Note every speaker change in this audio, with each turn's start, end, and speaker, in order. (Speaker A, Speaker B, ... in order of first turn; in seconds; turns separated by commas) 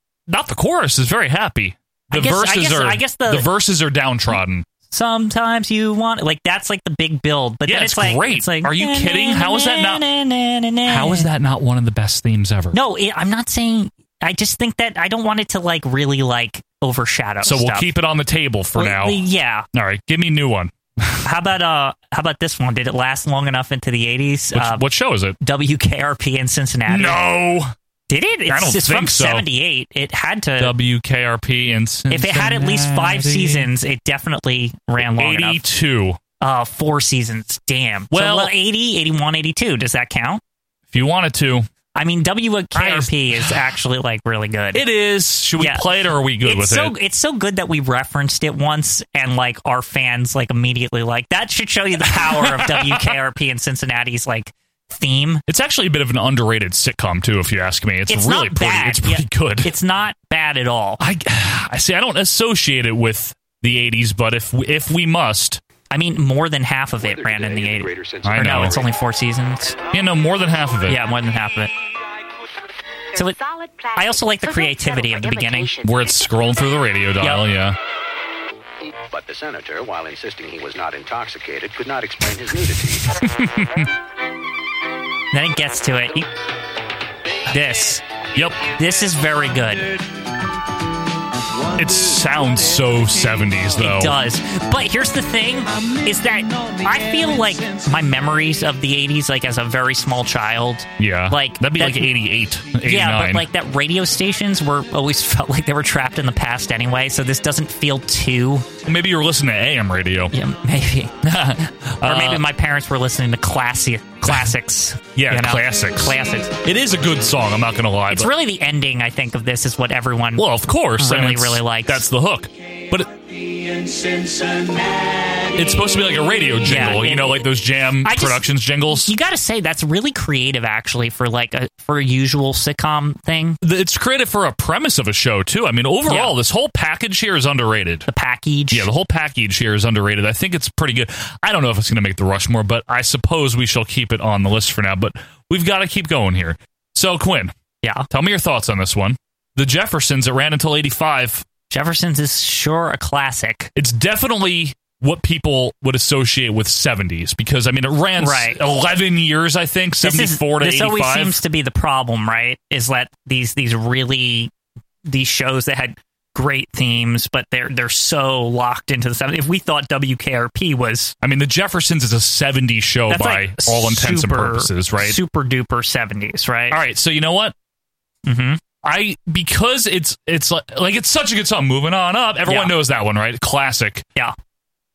Speaker A: 0.3-4.7, Speaker B: 2.1-3.5, Speaker B: 4.9-11.3, Speaker A: 7.6-10.0, Speaker A: 10.8-12.8, Speaker B: 12.7-17.9, Speaker A: 17.4-19.2, Speaker B: 18.8-19.6, Speaker A: 19.7-21.2, Speaker B: 21.2-24.8, Speaker A: 24.5-25.4, Speaker B: 25.4-27.2, Speaker A: 26.9-27.7, Speaker B: 28.1-30.7, Speaker A: 28.5-29.4, Speaker A: 30.6-33.7, Speaker B: 32.1-35.6, Speaker A: 35.0-36.2, Speaker B: 36.4-40.4, Speaker A: 38.1-38.5, Speaker A: 40.9-41.7, Speaker B: 41.9-44.9, Speaker A: 42.7-43.5, Speaker A: 44.7-46.9, Speaker B: 45.6-45.9, Speaker B: 46.4-55.4, Speaker A: 52.1-53.0, Speaker A: 55.5-59.7, Speaker B: 58.1-61.0, Speaker A: 61.0-65.6, Speaker B: 65.9-69.8, Speaker A: 68.2-68.8, Speaker A: 69.9-71.0, Speaker B: 70.9-71.7, Speaker B: 74.0-75.8, Speaker A: 75.8-77.8, Speaker B: 77.2-77.5, Speaker C: 79.1-83.0, Speaker A: 83.0-83.9, Speaker B: 85.3-86.3, Speaker B: 87.5-88.0, Speaker A: 88.3-88.6, Speaker B: 88.7-89.9, Speaker A: 91.7-94.2, Speaker B: 93.8-102.1, Speaker A: 101.0-103.5, Speaker B: 102.8-108.7, Speaker A: 108.8-110.3, Speaker B: 110.3-111.2, Speaker A: 111.2-112.4, Speaker B: 112.0-116.5, Speaker A: 114.2-114.5, Speaker A: 115.2-118.3, Speaker B: 118.1-122.0, Speaker A: 120.3-123.1, Speaker A: 125.5-129.1, Speaker B: 126.6-133.6, Speaker A: 133.6-138.1, Speaker B: 136.1-136.3, Speaker B: 138.1-138.9, Speaker A: 138.7-147.5, Speaker B: 147.8-148.1, Speaker A: 148.1-151.4, Speaker B: 151.7-153.7, Speaker A: 153.7-161.4, Speaker B: 158.2-158.6, Speaker B: 160.0-164.5, Speaker B: 165.0-171.1, Speaker A: 171.2-175.2, Speaker B: 173.1-176.8, Speaker A: 176.7-177.5, Speaker B: 178.2-178.6, Speaker A: 178.8-184.1, Speaker B: 182.5-182.7